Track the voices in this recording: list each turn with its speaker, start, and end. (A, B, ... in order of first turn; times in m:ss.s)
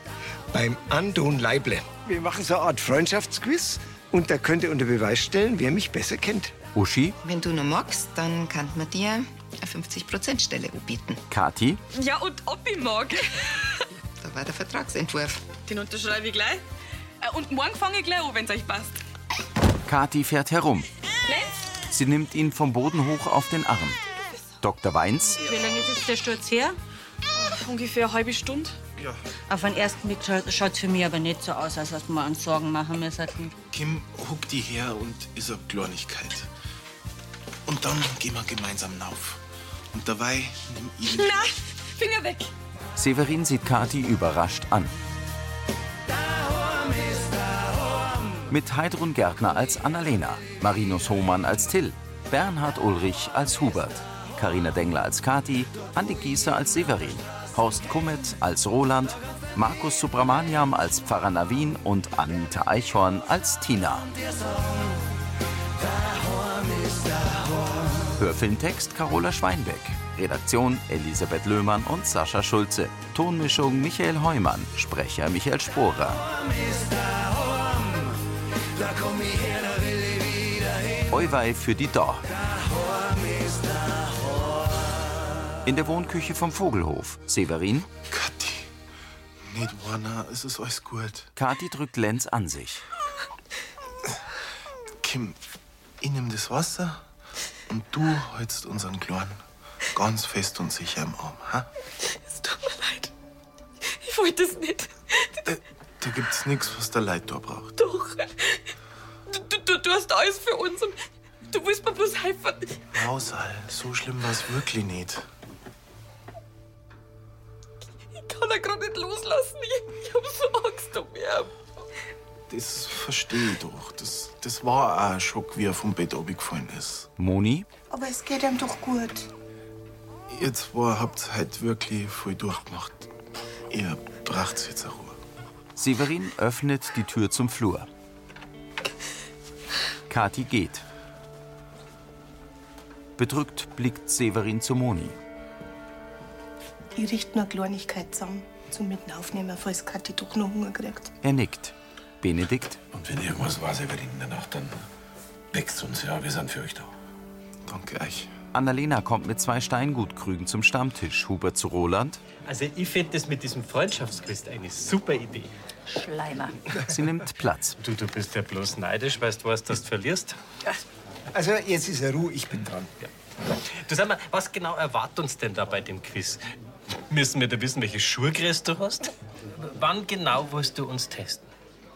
0:00.5-0:06.5 A
0:06.7-0:07.2 B
0:07.2-0:11.2 C
0:11.3-0:11.8 B
0:11.9-0:13.6 D
0:14.2-0:15.4 C
0:15.7-0:16.6 D
0:17.2-0:19.0 D
0:19.8-0:20.9 B
0:21.3-0:21.5 D
0:21.9-0:24.0 B
0:24.6-0:25.4 B
0:25.5-0:26.7 E
0:27.4-0:28.8 D
0:29.5-0:33.5 E
0:33.7-0:36.5 F
0:37.7-0:39.4 F
0:39.9-0:41.4 F
0:41.1-0:42.5 D
0:43.0-0:44.9 B
0:48.5-1:04.1 B
1:08.2-1:16.2 B
1:21.1-1:22.3 B
1:25.6-1:27.9 B
1:28.1-1:28.7 F
1:29.4-1:31.3 F
1:31.4-1:32.8 B
1:35.0-1:35.4 F
1:36.0-1:37.0 F
1:37.7-1:39.4 F
1:39.9-1:41.7 F
1:42.2-1:43.1 D
1:43.9-1:45.3 D
1:45.5-1:47.7 F
1:47.8-1:48.6 D
1:49.3-1:51.0 D
1:51.5-1:52.8 D
1:52.9-1:55.3 F
1:58.1-2:01.5 D
2:02.5-2:07.1 F
2:07.2-2:07.7 B
2:07.9-2:09.3 G
2:10.3-2:13.0 F
2:13.7-2:15.2 F
2:15.8-2:17.9 B
2:20.1-2:20.8 B
2:23.2-2:25.2 B
2:27.0-2:31.1 G
2:31.2-2:32.8 B
2:32.9-2:34.8 H
2:35.5-2:36.9 H
2:37.7-2:38.3 F
2:38.5-2:42.2 B
2:42.4-2:45.5 I
2:45.9-2:46.6 E
2:46.9-2:47.8 B
2:47.8-2:50.4 I
2:51.3-2:52.9 A
2:53.8-2:56.4 I
2:57.1-3:01.5 I